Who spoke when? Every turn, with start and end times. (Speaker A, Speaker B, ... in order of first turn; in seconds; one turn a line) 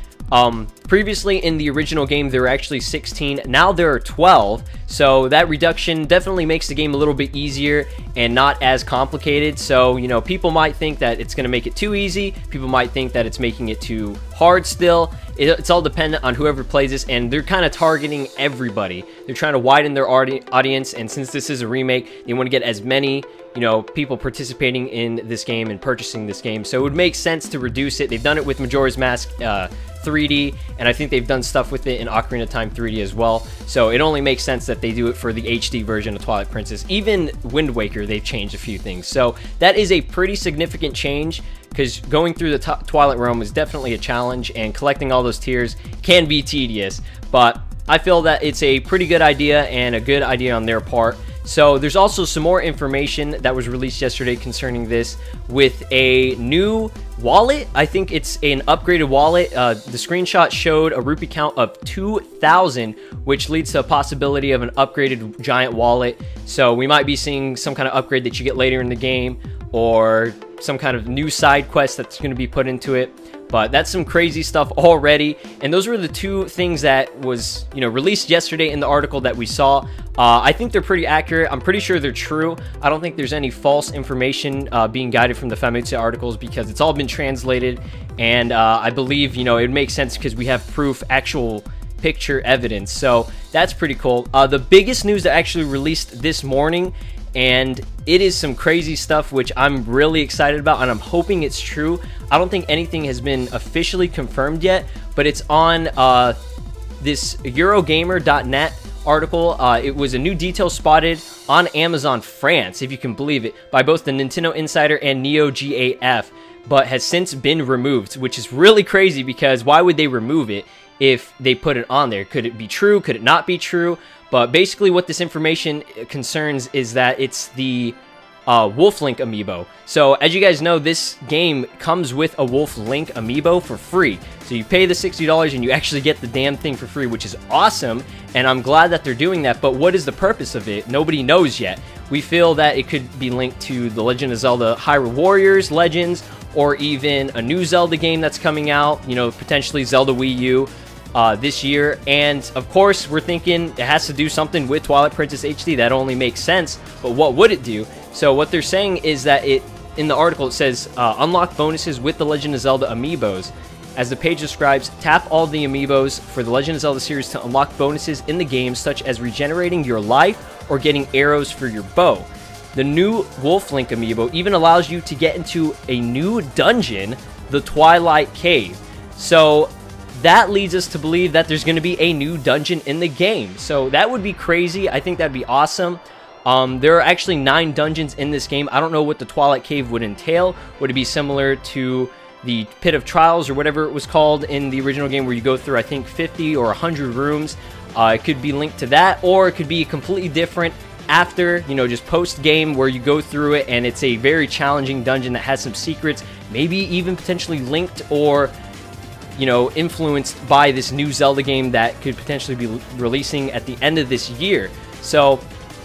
Speaker A: 0.3-106.4
Speaker A: 107.0-128.0
Speaker A: 128.5-208.5
Speaker A: 209.4-215.4